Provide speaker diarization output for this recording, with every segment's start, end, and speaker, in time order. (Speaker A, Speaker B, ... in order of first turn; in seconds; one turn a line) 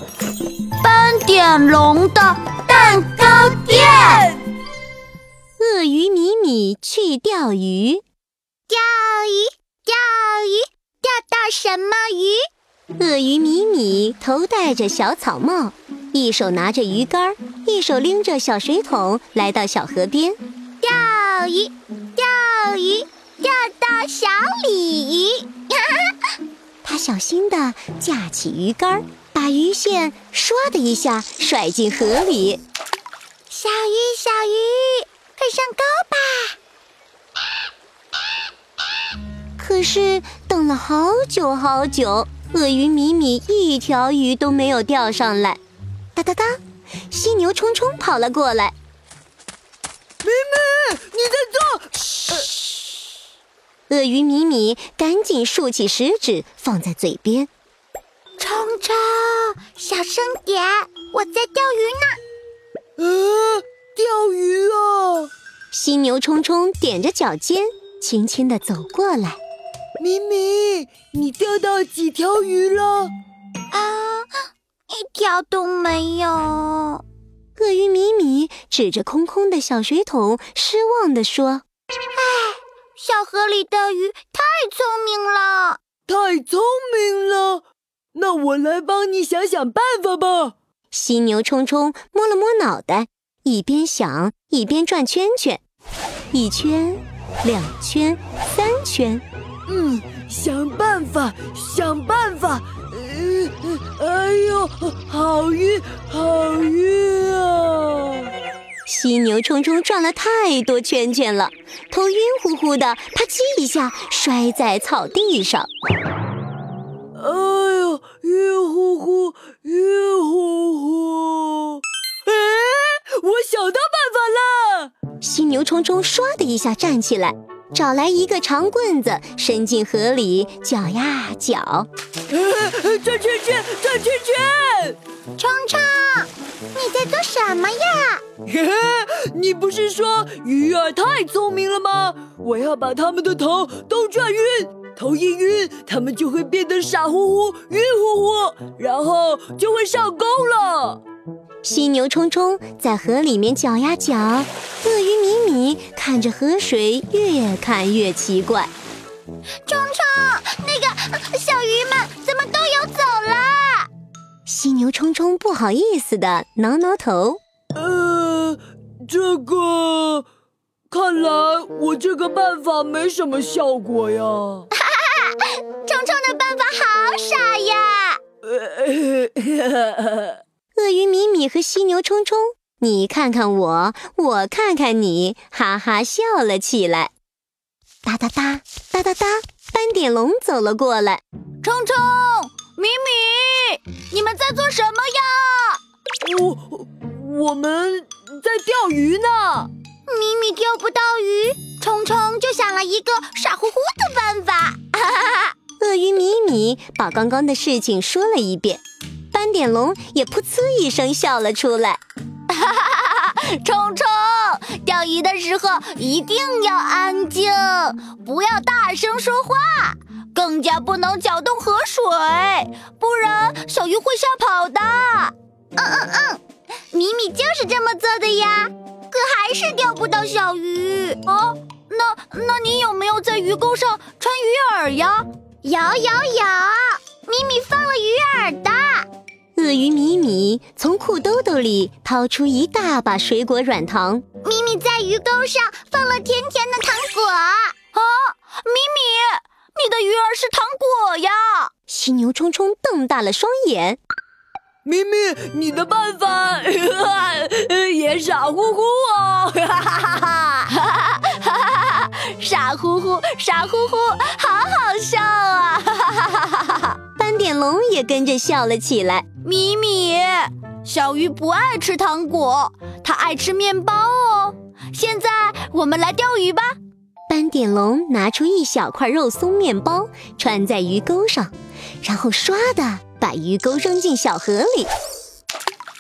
Speaker A: 0.8-4.3
Speaker B: 3.2-4.4
Speaker C: 5.6-8.0
Speaker A: 8.7-12.4
Speaker C: 13.0-20.4
Speaker A: 20.8-26.1
Speaker C: 26.8-32.6
Speaker A: 33.5-36.6
Speaker C: 39.6-45.6
Speaker C: 46.2-46.6
Speaker C: 47.1-48.8
Speaker B: 50.2-52.5
Speaker C: 53.9-57.5
Speaker A: 58.4-62.2
Speaker B: 63.0-65.3
Speaker C: 65.7-69.4
Speaker B: 70.0-73.1
Speaker A: 73.7-77.0
Speaker C: 77.6-81.6
Speaker A: 82.1-85.8
Speaker B: 86.1-87.6
Speaker B: 88.2-90.5
Speaker C: 90.9-95.6
Speaker C: 96.3-99.2
Speaker B: 99.7-108.3
Speaker C: 108.9-115.7
Speaker B: 117.2-124.9
Speaker C: 125.2-131.9
Speaker B: 132.3-135.0
Speaker A: 135.4-138.2
Speaker B: 138.4-151.0
Speaker C: 151.6-158.7
Speaker A: 159.7-163.9
Speaker C: 164.5-167.4
Speaker B: 167.8-170.3
Speaker B: 170.9-174.7
Speaker A: 174.7-178.2
Speaker B: 178.4-180.4
Speaker C: 180.8-187.1
Speaker C: 188.1-191.2
Speaker A: 191.6-195.8
Speaker B: 196.2-199.7
Speaker A: 200.1-205.5
Speaker C: 205.8-208.8
Speaker C: 209.3-212.0
Speaker A: 212.5-239.1
Speaker C: 239.6-244.2
Speaker A: 244.4-251.7
Speaker C: 251.9-254.0
Speaker B: 254.8-260.5
Speaker A: 260.6-267.0
Speaker C: 267.2-269.3
Speaker A: 269.4-276.7
Speaker C: 277.3-284.9